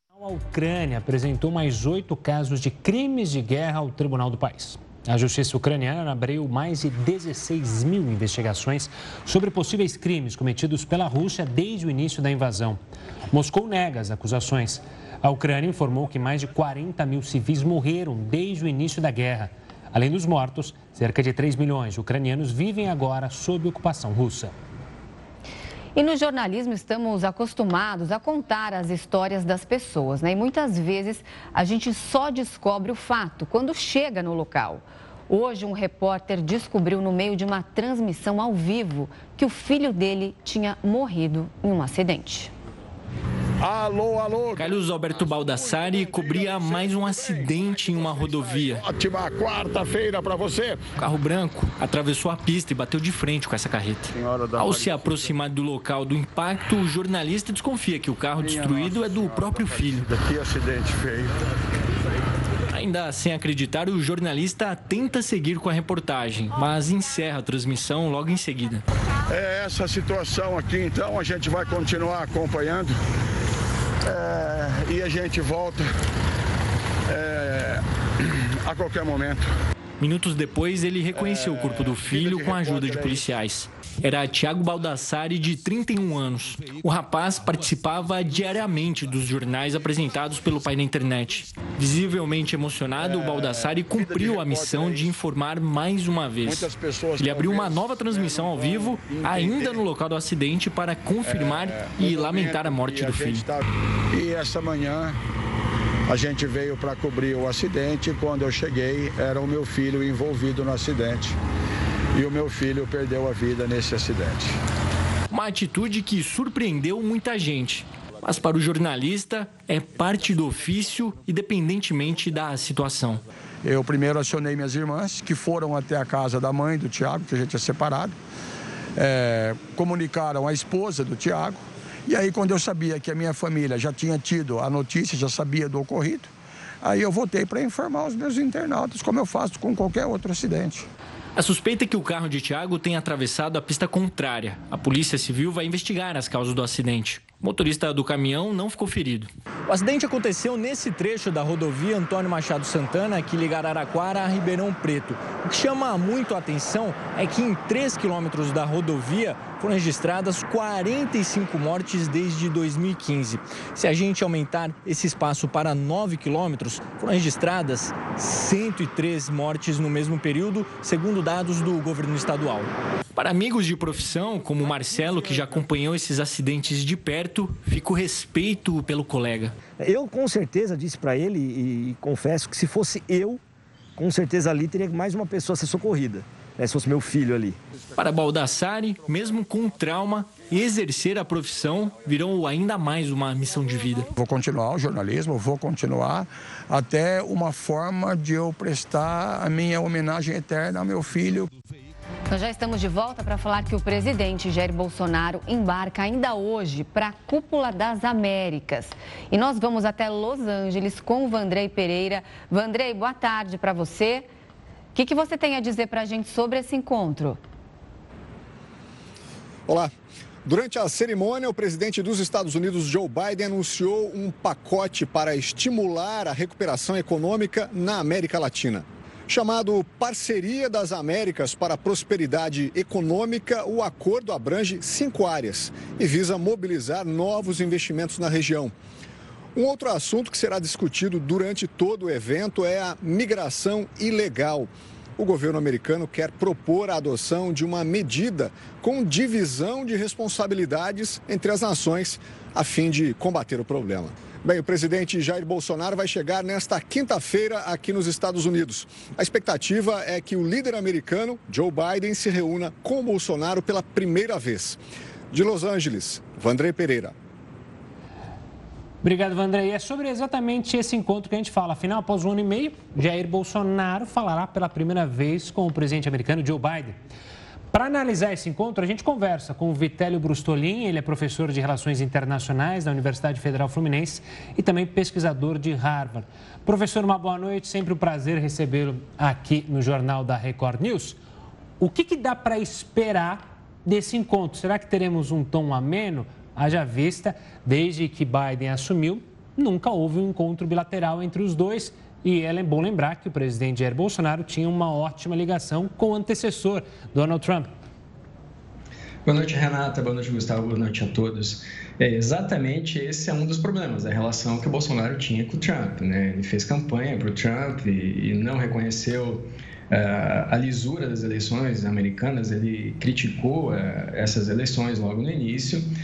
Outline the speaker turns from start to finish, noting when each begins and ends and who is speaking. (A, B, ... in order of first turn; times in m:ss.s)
0:00.2-0:12.8 A
0:13.3-0:24.5 A
0:26.0-0:42.5 B
0:43.6-0:50.9 C
0:44.6-0:48.8 D
0:51.0-1:00.1 D
0:54.1-0:55.4 C
0:58.4-1:01.3 C
1:02.7-1:08.8 D
1:09.3-1:13.0 C
1:14.0-1:15.8 C
1:17.1-1:19.4 C
1:20.0-1:43.4 D
1:21.1-1:23.4 C
1:33.0-1:35.2 C
1:36.4-1:39.8 C
1:41.2-1:45.2 C
1:46.1-1:51.4 C
1:52.1-1:54.6 C
1:55.3-2:03.2 D
2:03.6-2:08.2 C
2:09.0-2:20.9 C
2:21.4-2:59.6 D
2:54.9-2:55.6 C
2:59.7-3:03.4 E
3:04.0-3:07.6 E
3:08.0-3:14.1 D
3:14.1-3:21.5 C
3:22.3-3:34.3 B
3:35.0-3:37.4 B
3:39.7-3:39.9 F
3:40.4-3:58.7 F
3:59.6-4:24.8 F
4:25.3-4:27.2 F
4:29.0-4:37.0 A
4:37.7-4:51.2 A
4:51.8-5:07.7 A
5:09.2-5:25.9 G